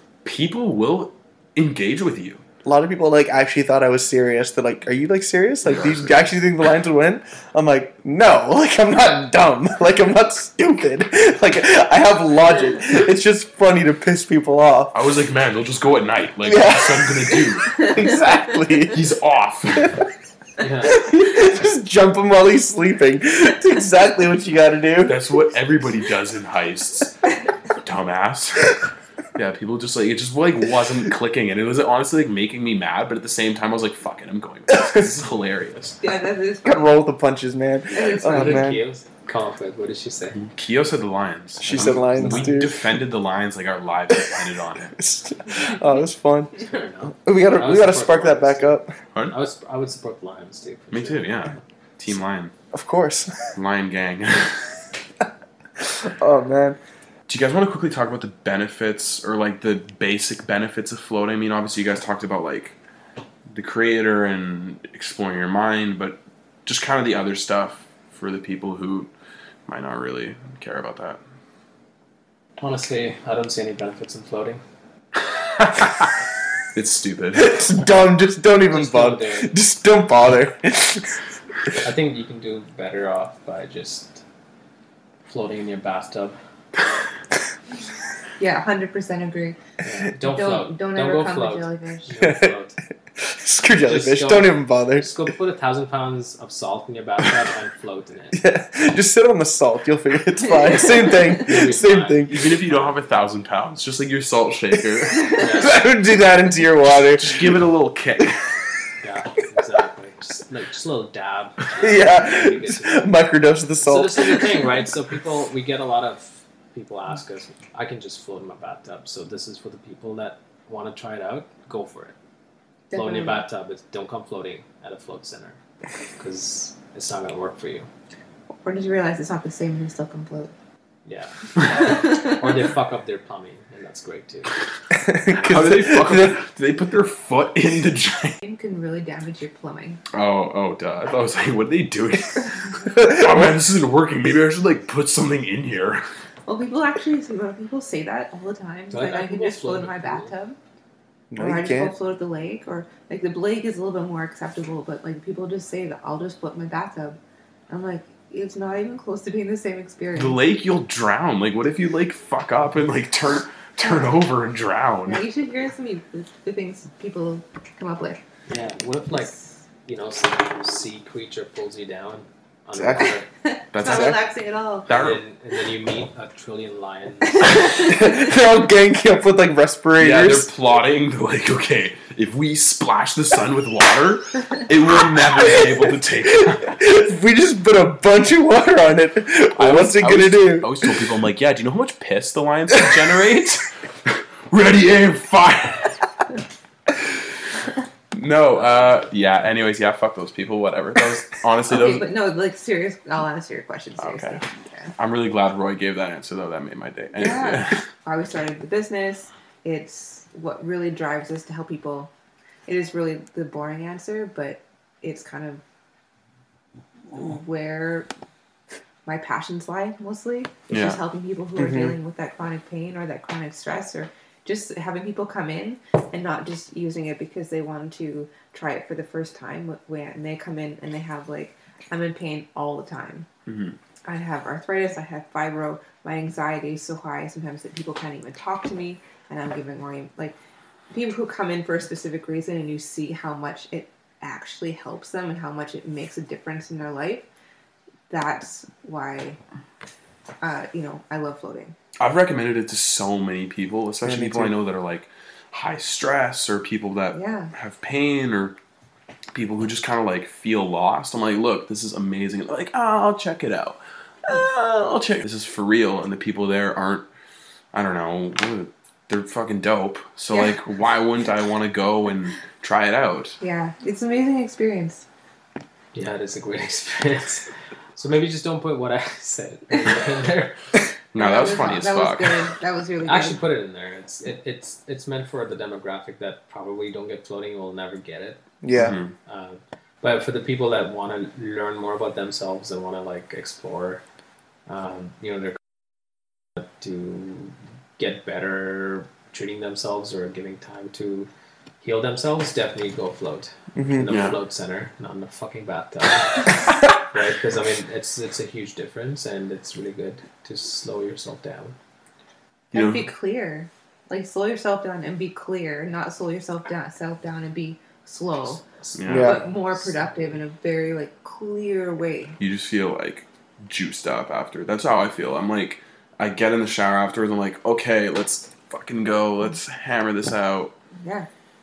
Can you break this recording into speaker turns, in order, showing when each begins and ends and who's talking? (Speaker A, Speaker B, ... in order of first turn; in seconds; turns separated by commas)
Speaker A: 0.2-2.4, Speaker B: 2.6-15.0, Speaker A: 5.7-6.2, Speaker A: 14.9-17.8, Speaker B: 16.4-19.0, Speaker A: 18.9-20.0, Speaker C: 20.6-21.1, Speaker B: 20.8-25.2, Speaker A: 25.1-27.2, Speaker A: 27.8-28.8, Speaker A: 29.4-36.0, Speaker B: 34.7-35.0, Speaker D: 36.0-36.9, Speaker B: 36.6-38.8, Speaker D: 37.9-38.7, Speaker C: 38.0-40.4, Speaker A: 40.4-45.0, Speaker B: 41.6-42.9, Speaker C: 41.8-42.6, Speaker B: 45.0-48.9, Speaker C: 46.6-51.6, Speaker A: 50.9-52.5, Speaker B: 52.7-53.5, Speaker A: 53.5-54.7, Speaker B: 55.8-56.8, Speaker A: 57.3-62.8, Speaker A: 63.5-69.1, Speaker A: 69.7-71.2, Speaker C: 72.6-74.6, Speaker A: 75.6-76.1, Speaker A: 76.7-77.8, Speaker B: 77.3-81.1, Speaker C: 78.7-79.5, Speaker C: 81.7-84.2, Speaker C: 85.2-86.4, Speaker D: 88.4-89.6, Speaker C: 89.8-92.8, Speaker D: 90.2-92.1, Speaker B: 92.2-92.6, Speaker B: 93.2-95.3, Speaker C: 93.8-98.4, Speaker B: 98.3-102.6, Speaker C: 101.0-102.9, Speaker A: 102.3-105.5, Speaker B: 105.2-107.6, Speaker C: 105.4-105.8, Speaker A: 107.1-108.5, Speaker C: 109.0-113.1, Speaker B: 111.8-114.7, Speaker C: 113.8-122.2, Speaker D: 122.9-123.4, Speaker C: 122.9-125.6, Speaker C: 126.2-127.9, Speaker D: 128.6-130.5, Speaker C: 131.1-134.5, Speaker D: 131.7-132.3, Speaker B: 134.9-136.4, Speaker A: 135.4-138.4, Speaker D: 138.4-140.0, Speaker A: 140.1-146.0, Speaker B: 142.9-143.6, Speaker D: 146.5-150.6, Speaker C: 148.9-150.3, Speaker B: 151.3-151.9, Speaker D: 151.4-157.2, Speaker D: 157.7-160.4, Speaker A: 160.2-165.2, Speaker D: 165.1-168.2, Speaker C: 168.5-169.3, Speaker C: 169.9-173.3, Speaker B: 172.7-173.1, Speaker D: 173.4-174.9, Speaker A: 173.7-174.2, Speaker B: 173.8-174.2, Speaker A: 174.9-175.2, Speaker C: 174.9-177.8, Speaker D: 177.3-178.2, Speaker B: 177.8-180.5, Speaker A: 180.0-186.8, Speaker B: 185.1-190.9, Speaker A: 189.6-196.0, Speaker A: 198.1-202.1, Speaker D: 201.7-204.9, Speaker A: 204.0-204.4, Speaker A: 205.0-207.8, Speaker D: 207.2-212.1, Speaker D: 212.7-215.6, Speaker D: 217.1-218.1, Speaker D: 219.1-233.3, Speaker A: 220.7-221.0, Speaker B: 221.6-222.0, Speaker A: 233.5-233.8, Speaker D: 234.1-240.4, Speaker D: 240.9-247.3, Speaker D: 248.1-249.4, Speaker D: 250.4-251.7, Speaker A: 252.0-258.6, Speaker B: 254.0-254.6, Speaker D: 257.1-257.5, Speaker A: 259.3-267.1, Speaker A: 267.7-273.4, Speaker D: 273.4-275.1, Speaker C: 275.9-280.6, Speaker A: 281.1-282.5, Speaker D: 281.2-283.4, Speaker C: 283.1-288.4, Speaker B: 288.6-289.0, Speaker A: 288.7-289.1, Speaker C: 289.3-294.0, Speaker C: 294.7-295.6, Speaker C: 296.6-301.3, Speaker C: 301.8-311.8, Speaker B: 303.8-304.1, Speaker A: 304.1-304.4, Speaker A: 312.7-313.1, Speaker D: 312.7-318.6, Speaker C: 318.8-320.3, Speaker A: 319.0-319.4, Speaker B: 319.1-319.4, Speaker D: 319.1-322.4, Speaker A: 322.4-330.7, Speaker D: 331.0-331.3